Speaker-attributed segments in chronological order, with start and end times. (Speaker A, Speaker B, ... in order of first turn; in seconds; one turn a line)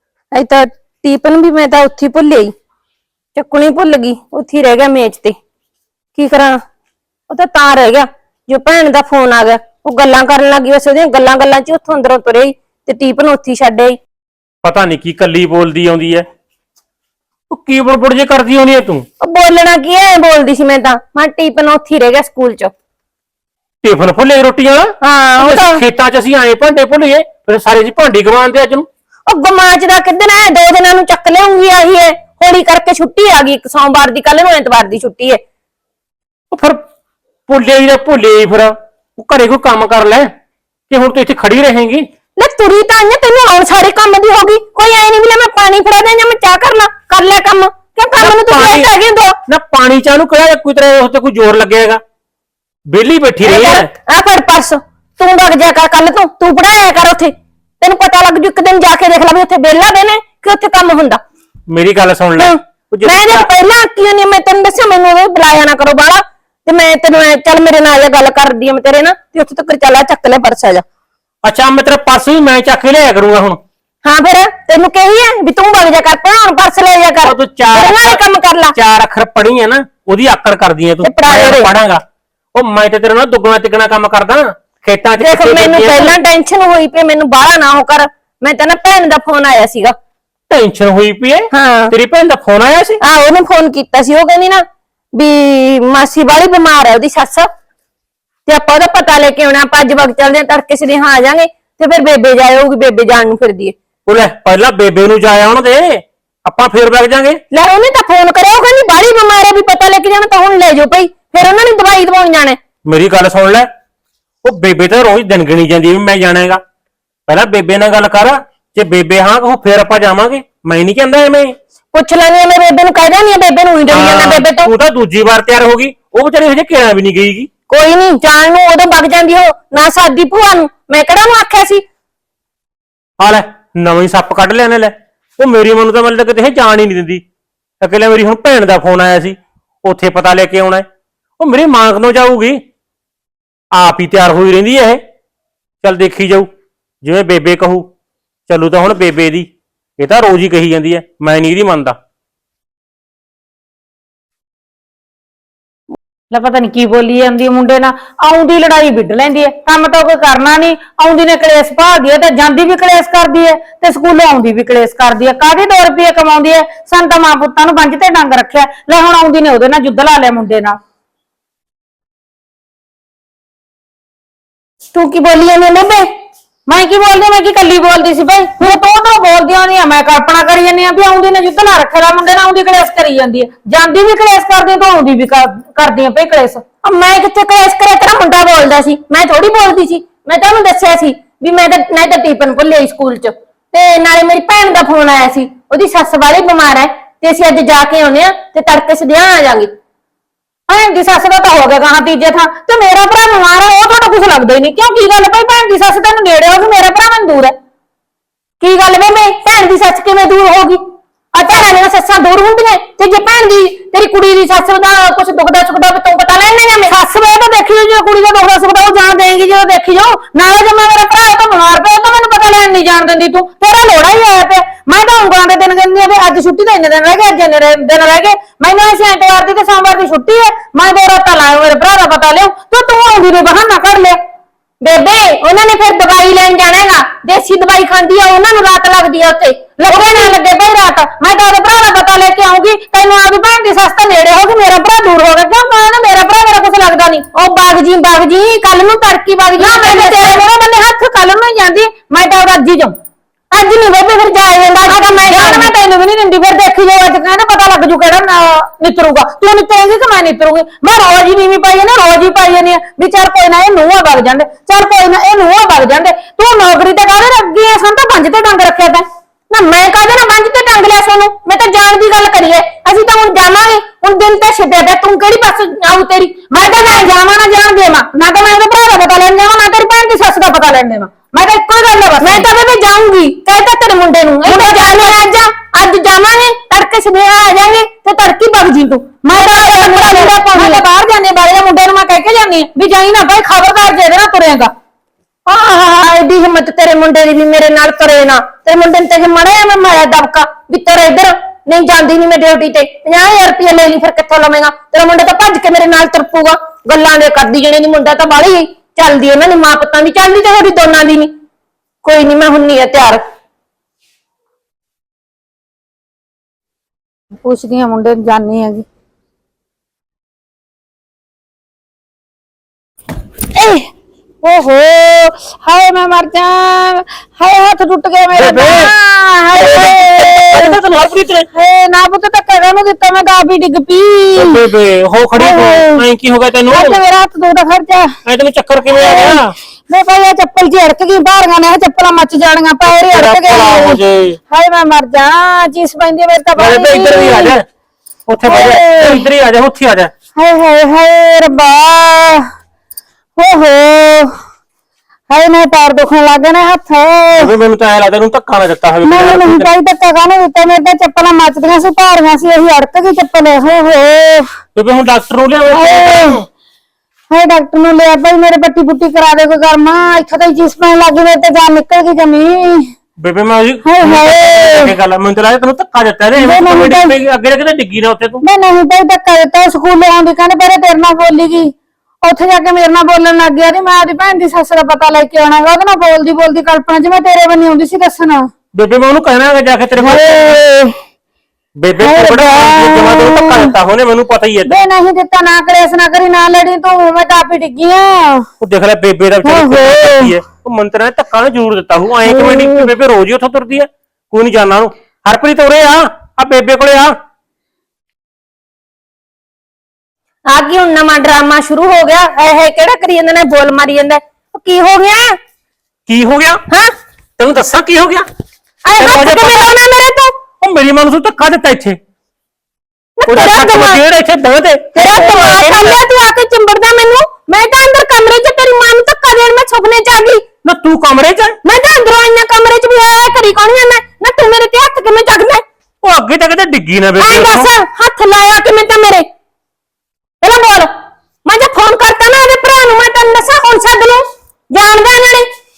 Speaker A: 0.3-2.5
Speaker A: 3.4-5.4
Speaker A: 6.2-6.6
Speaker A: 7.3-14.0
Speaker B: 14.6-16.3
Speaker B: 17.5-19.1
Speaker A: 19.2-22.7
Speaker B: 23.8-28.9
Speaker A: 25.0-25.8
Speaker A: 29.3-35.4
Speaker B: 36.5-36.8
Speaker B: 37.5-40.3
Speaker B: 40.9-42.0
Speaker A: 42.4-49.4
Speaker B: 48.2-48.9
Speaker B: 49.5-52.0
Speaker B: 52.9-53.9
Speaker A: 53.4-61.2
Speaker B: 61.7-63.5
Speaker A: 62.4-70.8
Speaker B: 71.4-73.6
Speaker A: 74.0-78.8
Speaker B: 77.2-78.2
Speaker B: 78.7-82.0
Speaker A: 81.0-81.7
Speaker B: 82.5-86.2
Speaker A: 85.2-90.0
Speaker B: 90.5-93.0
Speaker A: 91.5-91.9
Speaker A: 93.0-97.5
Speaker A: 98.5-103.7
Speaker B: 104.0-107.4
Speaker A: 107.5-112.6
Speaker B: 112.8-113.7
Speaker B: 114.4-116.6
Speaker B: 117.3-121.5
Speaker A: 121.9-124.7
Speaker B: 123.9-127.5
Speaker A: 127.7-131.8
Speaker B: 133.2-137.2
Speaker B: 137.8-140.8
Speaker B: 141.4-142.6
Speaker B: 143.7-145.0
Speaker B: 145.8-146.5
Speaker B: 147.0-147.9
Speaker B: 148.5-152.0
Speaker C: 156.3-170.8
Speaker A: 174.9-176.1
Speaker C: 176.7-186.6
Speaker A: 186.8-199.7
Speaker C: 200.7-207.5
Speaker A: 208.6-210.8
Speaker A: 211.3-216.9
Speaker C: 216.9-234.2
Speaker A: 234.8-240.3
Speaker C: 239.8-247.3
Speaker A: 247.3-250.4
Speaker C: 249.5-252.9
Speaker A: 253.5-255.7
Speaker C: 254.8-269.0
Speaker A: 269.5-277.1
Speaker C: 276.5-282.4
Speaker A: 282.2-290.8
Speaker C: 284.4-285.2
Speaker C: 289.2-294.7
Speaker A: 295.4-311.3
Speaker A: 312.0-313.2
Speaker C: 317.4-318.9
Speaker C: 323.5-323.9
Speaker C: 324.4-330.8
Speaker B: 328.3-328.9
Speaker B: 329.6-331.5
Speaker C: 331.5-334.6
Speaker B: 334.4-337.0
Speaker C: 335.4-336.0
Speaker C: 336.7-338.2
Speaker B: 338.2-339.5
Speaker C: 338.9-347.6
Speaker B: 343.1-344.4
Speaker B: 346.6-347.6
Speaker B: 348.3-350.1
Speaker C: 348.4-349.2
Speaker C: 350.4-352.5
Speaker C: 353.4-354.4
Speaker C: 355.3-357.5
Speaker B: 357.4-359.7
Speaker C: 359.0-364.5
Speaker B: 364.7-366.4
Speaker C: 365.7-366.4
Speaker C: 367.3-372.9
Speaker B: 373.2-378.4
Speaker C: 373.8-374.9
Speaker C: 376.4-377.1
Speaker C: 378.4-388.5
Speaker B: 388.7-390.6
Speaker C: 390.0-391.0
Speaker B: 391.8-394.7
Speaker C: 392.0-393.7
Speaker C: 394.7-398.5
Speaker B: 398.6-407.1
Speaker C: 399.4-400.4
Speaker C: 402.2-402.9
Speaker A: 410.5-415.4
Speaker B: 416.1-416.6
Speaker B: 417.4-418.2
Speaker A: 418.9-420.4
Speaker B: 418.9-419.7
Speaker B: 420.6-422.0
Speaker A: 423.2-424.0
Speaker B: 423.3-426.0
Speaker A: 424.9-430.4
Speaker B: 430.6-431.6
Speaker A: 431.6-435.6
Speaker B: 436.0-437.7
Speaker A: 437.2-439.3
Speaker A: 440.4-440.9
Speaker A: 441.4-445.5